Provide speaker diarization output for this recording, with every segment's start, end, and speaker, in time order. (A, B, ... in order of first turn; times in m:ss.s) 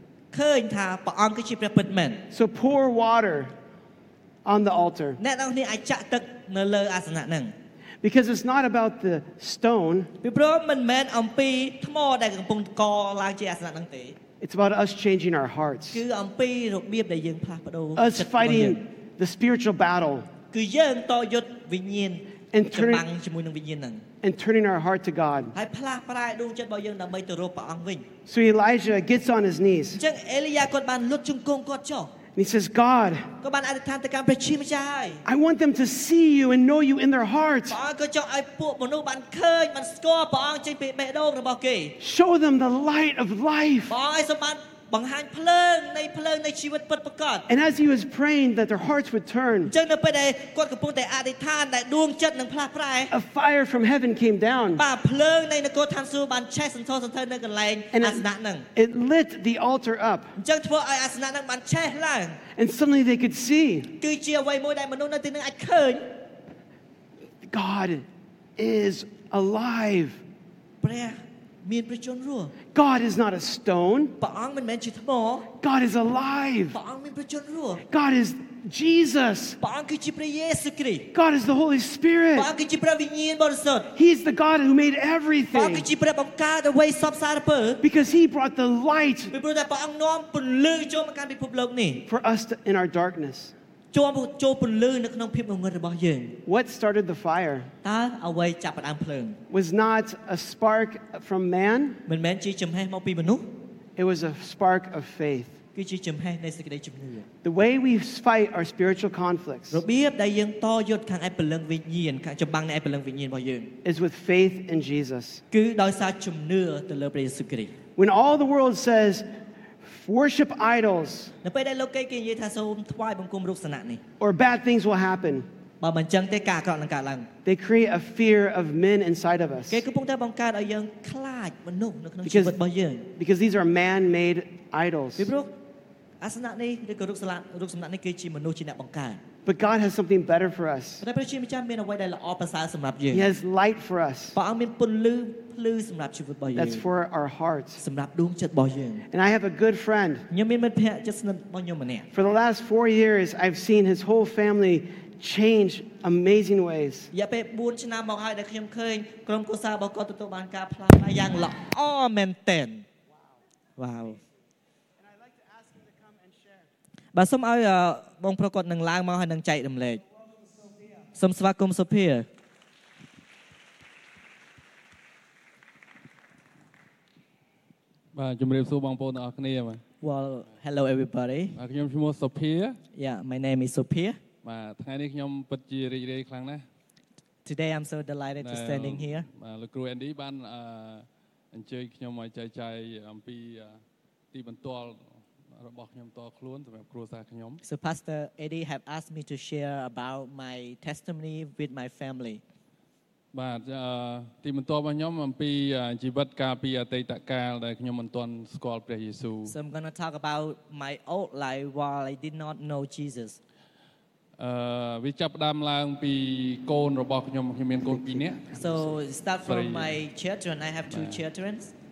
0:00.3-0:02.2 A
0:02.3-0:03.5 B
0:04.4-0:05.2 B
0:05.2-0:07.5 A
0:08.0-0:10.1 B
0:10.2-0:14.2 A
0:14.4-0:16.0 B
0:15.9-0:18.8 A
0:18.0-0:20.3 B
0:20.5-0:24.0 A
0:22.5-0:23.0 B
0:24.2-0:25.5 B
0:25.6-0:28.1 A
0:28.3-0:30.0 B
0:30.0-0:32.1 A
0:32.4-0:33.3 B
0:33.4-0:35.2 A
0:35.2-0:37.8 B
0:37.7-0:42.0 A
0:42.0-0:44.0 B
0:43.9-0:47.5 A
0:47.5-0:49.7 B
0:49.7-0:53.1 A
0:53.1-0:54.8 B
0:54.8-0:58.7 A
0:57.9-1:00.3 B
1:00.4-1:02.4 A
1:02.6-1:03.9 B
1:04.0-1:06.1 A
1:07.5-1:08.0 B
1:08.6-1:10.2 B
1:10.8-1:12.5 A
1:12.7-1:14.2 B
1:14.2-1:15.5 A
1:15.6-1:16.8 B
1:16.7-1:17.8 A
1:17.9-1:19.6 B
1:19.6-1:21.1 A
1:21.1-1:22.5 B
1:22.4-1:23.9 A
1:24.0-1:25.9 B
1:25.5-1:27.8 A
1:27.8-1:29.3 B
1:29.3-1:32.0 A
1:32.1-1:33.5 B
1:33.9-1:36.4 A
1:36.5-1:37.7 B
1:37.8-1:39.4 A
1:39.5-1:42.0 B
1:42.1-1:43.5 A
1:44.0-1:45.6 B
1:45.8-1:47.3 A
1:47.4-1:49.8 B
1:49.7-1:53.7 A
1:53.8-1:55.4 B
1:55.5-1:57.7 A
1:58.0-1:59.2 B
1:59.8-2:01.3 B
2:01.4-2:04.0 A
2:04.2-2:05.5 B
2:05.8-2:07.3 A
2:07.4-2:09.8 B
2:09.7-2:13.1 A
2:12.2-2:12.6 B
2:13.2-2:15.3 B
2:15.2-2:15.5 A
2:16.2-2:19.2 A
2:19.5-2:21.0 B
2:21.0-2:23.3 A
2:23.1-2:24.4 B
2:24.4-2:26.8 A
2:26.5-2:27.8 B
2:27.8-2:29.0 A
2:29.1-2:30.2 B
2:30.3-2:32.1 A
2:32.1-2:37.1 B
2:37.1-2:42.9 A
2:43.8-2:44.2 A
2:45.0-2:46.7 B
2:47.1-2:50.0 A
2:51.2-2:52.3 A
2:58.1-2:59.8 C
3:00.0-3:01.6 A
3:01.6-3:02.8 C
3:02.9-3:04.2 A
3:04.4-3:06.6 C
3:07.4-3:09.3 A
3:08.4-3:13.8 C
3:14.3-3:15.0 C
3:15.6-3:17.6 C
3:17.6-3:22.4 A
3:23.3-3:29.6 C
3:29.5-3:33.4 A
3:34.4-3:38.9 C
3:38.6-3:41.7 A
3:39.5-3:40.0 C
3:40.9-3:41.2 C